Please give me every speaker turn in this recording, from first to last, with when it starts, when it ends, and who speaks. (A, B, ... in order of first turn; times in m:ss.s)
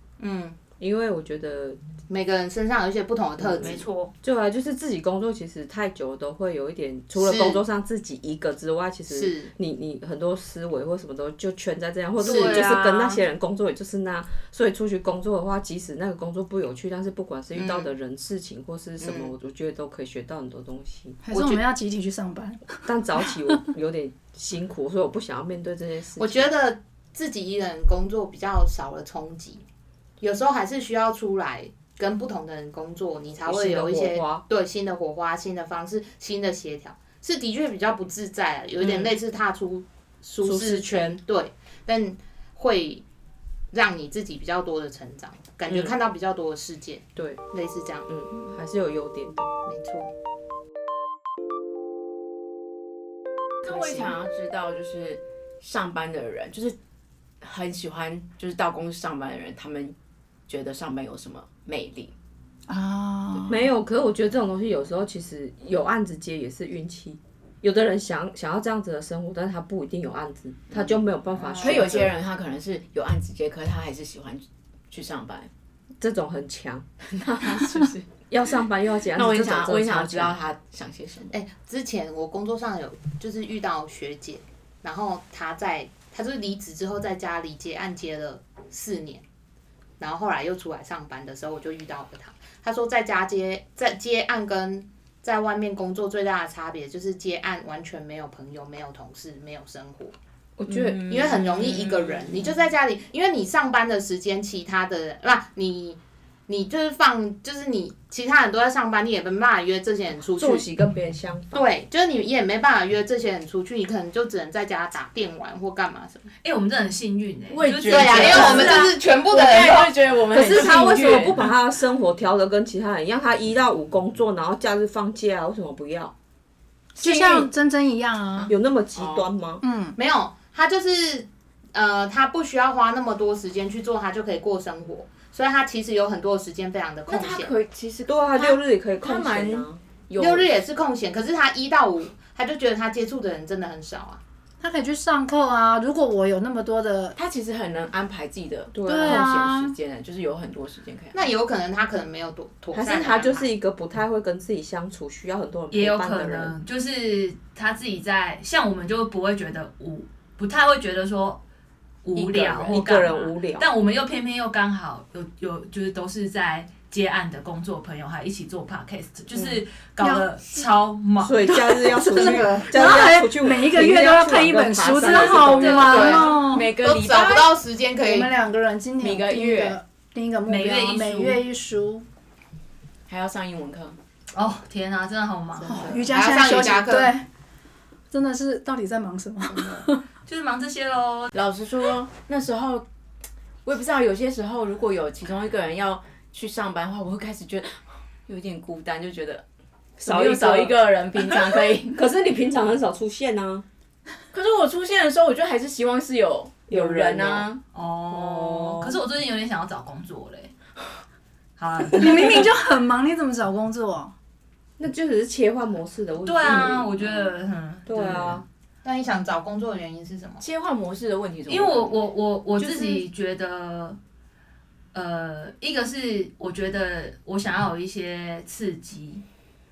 0:00.2-0:00.6 A
0:00.8-0:01.8 B
0:02.1-0:03.8 A
0:03.4-0:21.2 B
0:03.6-0:04.1 C
0:07.2-0:07.6 A
0:09.1-0:09.5 A
0:12.2-0:13.2 C
0:12.2-0:12.9 A
0:17.6-0:17.9 A
0:19.0-0:19.3 A
0:21.2-0:22.9 D
0:21.3-0:21.6 A
0:22.8-0:26.5 B
0:26.2-0:29.6 A
0:30.2-0:43.0 A
0:33.4-0:34.4 B
0:38.8-0:39.1 B
0:40.4-0:41.2 B
0:43.7-0:48.1 A
0:45.7-0:46.0 B
0:48.1-0:49.5 B
0:49.7-0:50.1 A
0:53.6-0:56.8 E
0:57.4-1:00.0 E
1:00.5-1:02.1 E
1:02.7-1:03.6 D
1:03.5-1:12.1 B
1:11.4-1:12.1 A
1:11.5-1:15.5 E
1:16.0-1:20.4 B
1:17.2-1:17.9 E
1:19.1-1:21.3 E
1:21.3-1:29.2 A
1:30.0-1:40.2 A
1:40.6-1:41.5 B
1:40.7-1:42.4 E
1:41.1-1:50.7 A
1:50.4-1:51.7 B
1:51.5-1:56.3 A
1:56.4-1:58.9 C
1:57.5-2:01.4 E
1:57.9-2:00.0 A
2:00.3-2:06.1 B
2:07.0-2:08.5 D
2:07.0-2:07.5 E
2:08.4-2:09.3 E
2:08.5-2:09.6 B
2:09.6-2:10.0 D
2:10.0-2:17.5 A
2:17.1-2:20.5 E
2:18.1-2:19.7 B
2:20.2-2:24.2 A
2:24.6-2:27.2 D
2:27.2-2:31.3 E
2:28.7-2:29.3 B
2:28.9-2:29.8 D
2:31.1-2:33.5 A
2:32.7-2:36.6 B
2:35.7-2:41.4 C
2:42.0-2:51.5 C
2:42.2-2:42.8 E
2:42.2-2:43.7 B
2:50.0-2:50.7 D
2:51.2-2:56.3 B
2:51.5-2:56.7 D
2:55.1-2:56.1 C
2:55.8-2:58.3 A
2:56.4-2:57.6 E
2:58.0-3:02.0 D
2:59.0-2:59.8 E
3:00.5-3:01.4 C
3:03.1-3:04.0 E
3:04.4-3:05.9 C
3:05.6-3:07.1 A
3:05.7-3:07.3 D
3:08.1-3:10.0 D
3:09.5-3:09.8 A
3:10.3-3:11.3 C
3:11.3-3:12.9 E
3:13.6-3:19.4 E
3:20.0-3:22.0 E
3:20.0-3:20.8 B
3:21.8-3:23.6 B
3:24.3-3:27.6 E
3:26.7-3:27.5 B
3:27.7-3:30.5 C
3:28.1-3:29.0 B
3:31.6-3:32.5 C
3:31.9-3:34.1 D
3:34.8-3:37.3 B
3:36.2-3:38.4 C
3:37.9-3:38.4 B
3:38.8-3:40.4 A
3:40.4-3:42.0 E
3:41.5-3:44.0 C
3:44.9-3:49.2 C